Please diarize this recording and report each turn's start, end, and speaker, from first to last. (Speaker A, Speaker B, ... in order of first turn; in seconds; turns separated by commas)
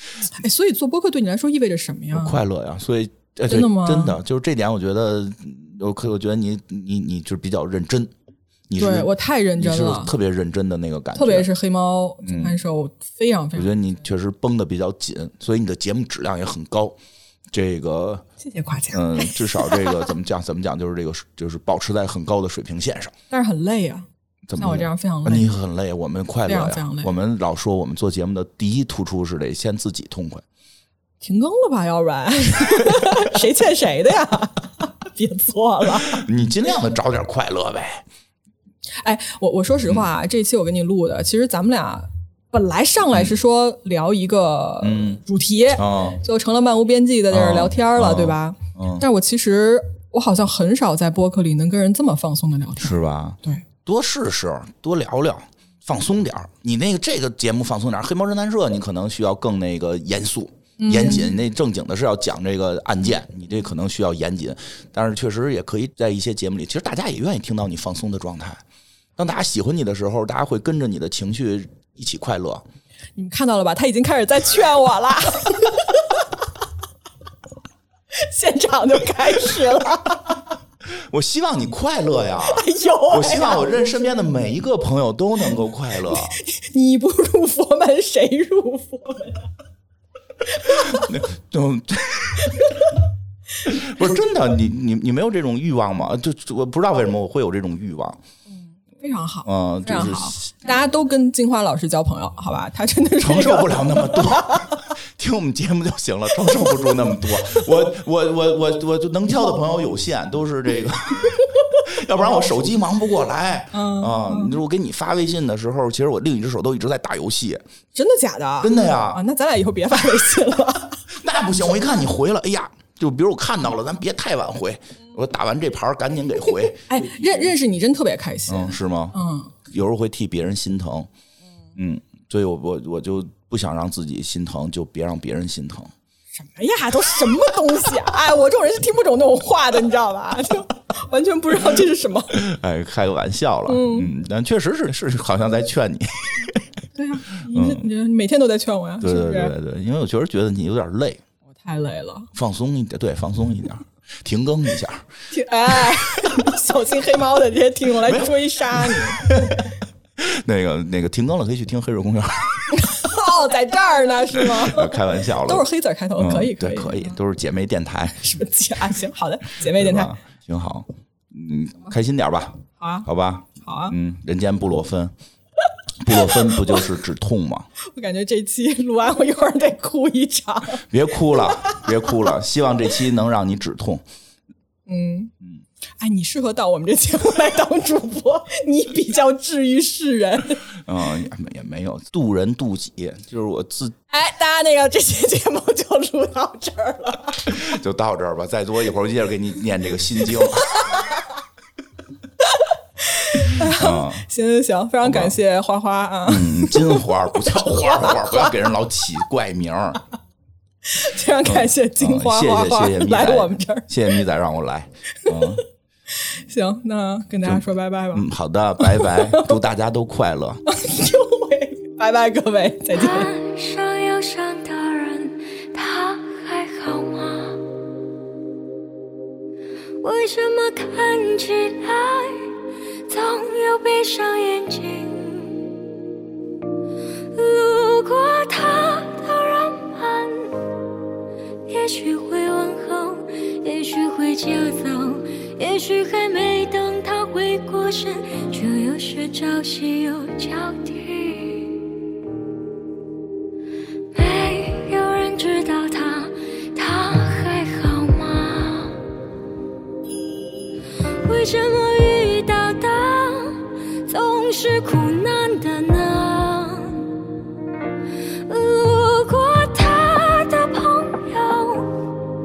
Speaker A: 0.3-2.4, Speaker B: 2.1-8.1, Speaker A: 3.5-4.2, Speaker B: 8.7-11.5, Speaker A: 8.8-10.1, Speaker A: 11.2-13.8, Speaker B: 12.2-12.6, Speaker B: 13.6-17.0, Speaker B: 17.5-18.2, Speaker A: 18.4-20.0, Speaker B: 18.9-23.1, Speaker A: 23.3-25.6, Speaker B: 24.5-30.4, Speaker A: 26.5-27.1, Speaker A: 31.2-36.2, Speaker B: 36.0-38.0, Speaker A: 39.0-53.6, Speaker B: 44.8-45.2, Speaker B: 45.8-46.2, Speaker B: 47.3-49.0, Speaker B: 52.8-68.6, Speaker A: 60.8-61.4, Speaker B: 69.2-72.7, Speaker A: 73.2-76.2, Speaker A: 78.1-80.4, Speaker B: 81.1-86.4, Speaker A: 82.5-83.8, Speaker A: 86.1-89.5, Speaker A: 90.5-91.1, Speaker B: 90.6-92.7, Speaker A: 92.4-92.9, Speaker B: 93.7-98.2, Speaker A: 98.8-104.8, Speaker B: 99.5-100.5, Speaker B: 103.2-117.6, Speaker A: 113.7-114.5, Speaker A: 118.0-121.0, Speaker B: 118.6-119.2, Speaker B: 121.1-127.3, Speaker A: 126.9-129.5, Speaker B: 128.5-129.2, Speaker B: 129.7-131.1, Speaker B: 131.8-135.9, Speaker A: 136.3-142.4, Speaker B: 142.3-146.6, Speaker A: 143.7-144.1, Speaker A: 146.9-149.5, Speaker B: 147.5-147.9, Speaker B: 149.0-151.2, Speaker A: 151.6-152.3, Speaker B: 152.3-155.1, Speaker A: 155.3-159.3, Speaker B: 158.0-163.2, Speaker A: 162.7-167.2, Speaker B: 164.4-165.7, Speaker B: 166.2-168.2, Speaker A: 168.2-170.1, Speaker B: 169.6-175.1, Speaker A: 172.8-173.1, Speaker A: 173.6-173.9, Speaker B: 176.0-177.7, Speaker A: 176.1-176.6, Speaker A: 177.8-182.1, Speaker B: 180.8-184.0, Speaker A: 184.9-185.3, Speaker A: 186.0-190.6, Speaker B: 190.8-194.0, Speaker A: 194.1-197.6, Speaker B: 197.5-200.7, Speaker A: 202.4-208.6, Speaker B: 203.5-204.3, Speaker B: 205.0-205.4, Speaker B: 206.3-210.0, Speaker A: 210.9-214.2, Speaker B: 211.4-215.6, Speaker A: 215.2-215.6, Speaker A: 216.2-218.3, Speaker B: 217.4-220.6, Speaker A: 218.8-219.6, Speaker A: 220.7-223.3, Speaker C: 222.9-227.6, Speaker C: 230.0-235.7, Speaker C: 237.3-240.7, Speaker C: 241.7-251.9, Speaker C: 254.1-259.0, Speaker C: 261.2-267.1, Speaker C: 268.5-272.1